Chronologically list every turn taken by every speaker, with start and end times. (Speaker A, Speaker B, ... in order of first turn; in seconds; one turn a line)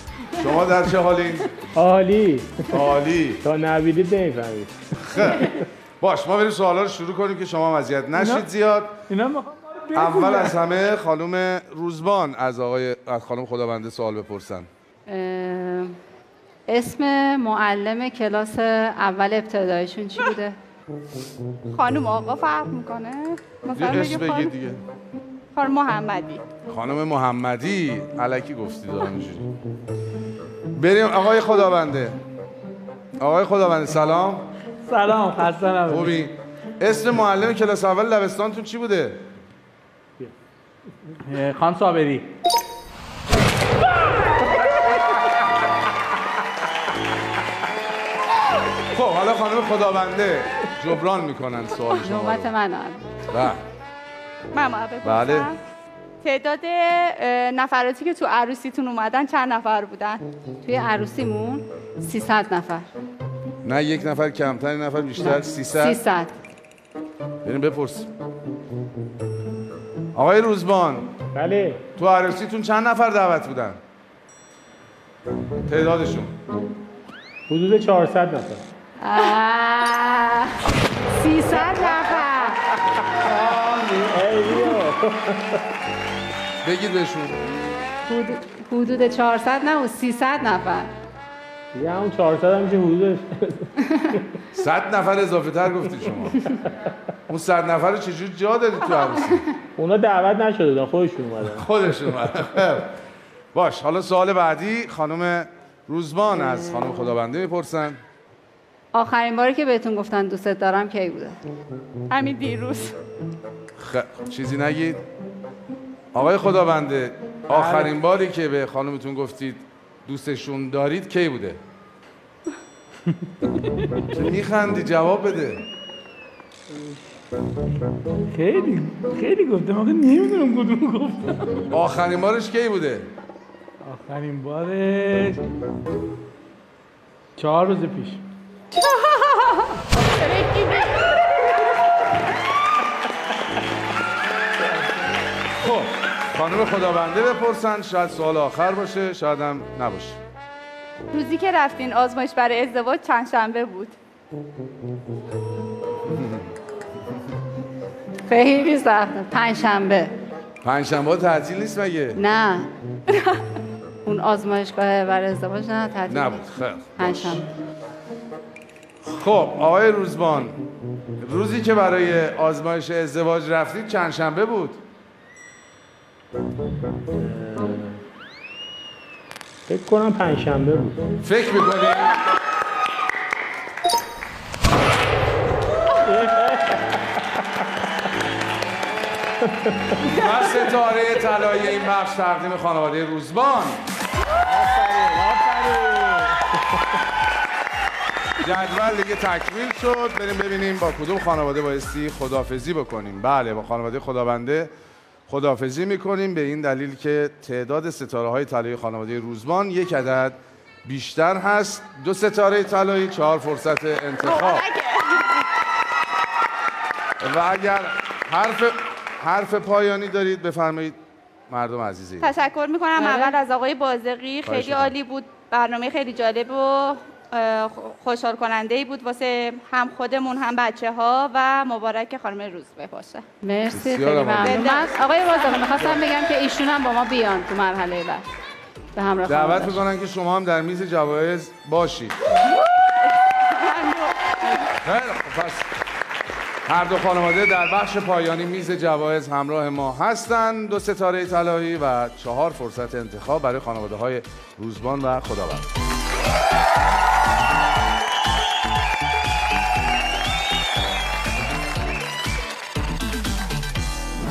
Speaker A: 0.4-1.5
Speaker B: 1.8-2.9
Speaker A: 2.7-3.4
Speaker B: 3.4-5.7
Speaker A: 5.0-9.0
Speaker C: 8.2-8.4
Speaker C: 9.1-10.6
Speaker A: 9.9-14.7
Speaker D: 15.1-16.0
Speaker D: 16.7-20.6
Speaker E: 21.7-24.5
Speaker A: 23.7-24.8
Speaker E: 25.5-26.4
Speaker A: 26.7-29.5
Speaker A: 30.8-32.2
Speaker A: 33.2-34.5
Speaker C: 34.9-36.2
Speaker A: 35.9-39.2
Speaker C: 41.2-42.3
Speaker A: 48.9-52.5
Speaker D: 52.0-53.0
Speaker A: 53.3-53.6
Speaker E: 54.5-55.6
Speaker A: 55.0-55.5
Speaker E: 56.2-60.2
Speaker D: 60.6-62.9
Speaker A: 63.6-66.0
Speaker D: 65.2-66.3
Speaker A: 67.4-68.1
Speaker A: 70.1-71.1
Speaker B: 71.3-71.8
Speaker A: 72.0-73.8
Speaker A: 75.7-76.3
Speaker B: 77.5-78.6
Speaker D: 79.0-82.6
Speaker B: 81.5-83.0
Speaker C: 83.3-84.0
Speaker A: 83.3-84.2
Speaker B: 84.1-85.6
Speaker A: 86.6-87.4
Speaker D: 88.1-90.9
Speaker B: 91.7-94.2
Speaker A: 94.5-96.5
Speaker A: 97.3-99.4
Speaker B: 99.8-101.7
Speaker A: 101.5-102.9
Speaker A: 103.5-108.0
Speaker D: 108.9-111.4
Speaker E: 112.1-113.0
Speaker A: 113.8-115.0
Speaker A: 116.1-121.6
Speaker C: 117.5-117.9
Speaker C: 123.1-123.9
Speaker A: 124.1-125.6
Speaker C: 128.3-131.7
Speaker A: 131.7-133.1
Speaker C: 133.8-135.4
Speaker C: 137.4-138.2
Speaker E: 140.0-141.1
Speaker A: 145.6-150.2
Speaker E: 151.1-153.9
Speaker A: 156.1-156.5
Speaker D: 158.3-160.1
Speaker A: 160.6-162.2
Speaker D: 162.2-162.7
Speaker D: 164.1-166.4
Speaker A: 166.1-167.4
Speaker D: 167.0-167.5
Speaker A: 169.0-170.6
Speaker A: 171.2-174.8
Speaker B: 177.1-178.0
Speaker B: 179.7-181.0
Speaker A: 181.2-182.1
Speaker B: 186.0-187.0
Speaker B: 189.4-190.1
Speaker A: 190.0-193.8
Speaker B: 194.4-196.6
Speaker A: 198.4-204.7
Speaker A: 205.3-214.7
Speaker E: 214.2-215.4
Speaker A: 217.2-221.0
Speaker A: 221.5-222.3
Speaker E: 222.2-233.3
Speaker D: 223.0-223.4
Speaker A: 224.4-224.9
Speaker D: 233.4-238.2
Speaker A: 233.7-234.6
Speaker E: 234.4-236.0
Speaker D: 239.0-239.8
Speaker A: 239.3-242.2
Speaker E: 242.4-244.7
Speaker A: 244.8-245.7
Speaker A: 246.7-255.7